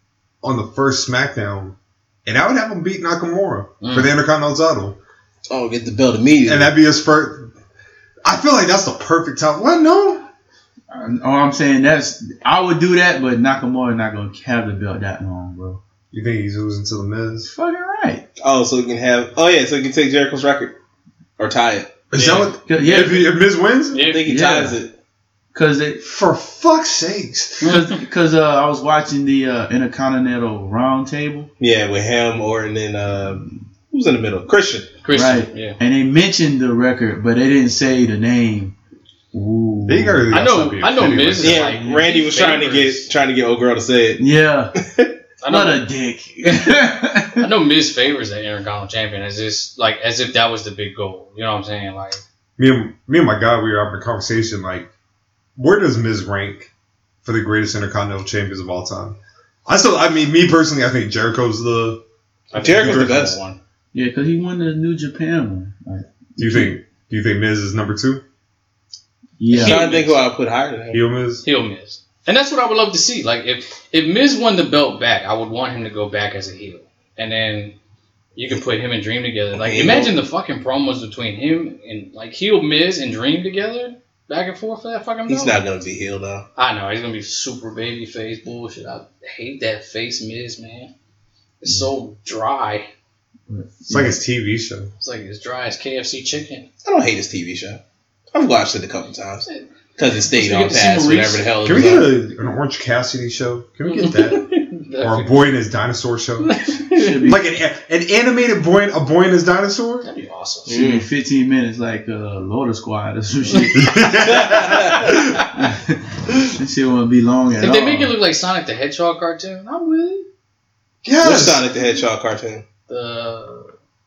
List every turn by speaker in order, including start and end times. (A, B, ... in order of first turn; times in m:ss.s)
0:00.4-0:05.0 A
0:03.8-0:04.1 B
0:05.5-0:06.7 C
0:06.4-0:07.5 A
0:08.2-0:10.3 A
0:10.9-0:15.8 D
0:16.1-0:17.5 A
0:17.5-0:18.2 D
0:18.4-0:20.8 C
0:21.4-0:22.0 C
0:22.1-0:24.1 A
0:22.1-0:23.2 B
0:22.6-0:23.3 D
0:23.9-0:24.2 B
0:24.0-0:24.9 C
0:24.2-0:24.8 D
0:25.5-0:26.0 D
0:26.0-0:27.7 A
0:27.6-0:31.5 D
0:27.6-0:27.9 B
0:31.6-0:34.9 C
0:35.0-0:35.8 B
0:35.1-0:38.7 D
0:39.3-0:40.3 D
0:39.9-0:41.7 A
0:40.3-0:43.1 B
0:41.4-0:44.2 C
0:44.2-0:44.7 D
0:44.8-0:45.1 C
0:45.4-0:45.8 B
0:45.4-0:47.4 D
0:47.4-0:52.2 B
0:52.6-0:54.9 A
0:55.6-0:56.7 A
0:57.2-1:02.0 A
1:02.5-1:03.6 B
1:02.5-1:03.4 C
1:02.6-1:03.0 A
1:03.9-1:06.7 D
1:06.4-1:08.2 A
1:09.4-1:09.8 D
1:09.5-1:10.2 B
1:09.5-1:11.0 C
1:10.9-1:11.4 A
1:11.4-1:17.8 B
1:18.4-1:25.6 B
1:19.6-1:20.1 C
1:25.3-1:26.4 C
1:26.6-1:30.9 B
1:31.6-1:32.9 B
1:33.5-1:34.2 D
1:33.9-1:34.9 A
1:35.0-1:36.6 B
1:36.8-1:37.8 C
1:38.3-1:42.1 C
1:40.2-1:41.8 B
1:41.6-1:44.4 A
1:43.9-1:45.5 B
1:45.0-1:46.5 A
1:46.4-1:47.2 B
1:46.9-1:47.4 D
1:47.2-1:50.1 A
1:50.0-1:50.7 B
1:50.7-1:51.0 C
1:50.7-1:54.2 D
1:53.7-1:55.4 A
1:54.2-1:55.1 C
1:54.5-1:55.4 B
1:55.5-1:56.0 D
1:56.5-1:58.1 D
1:57.6-2:00.2 B
2:01.0-2:01.6 A
2:01.2-2:02.6 C
2:02.9-2:03.7 B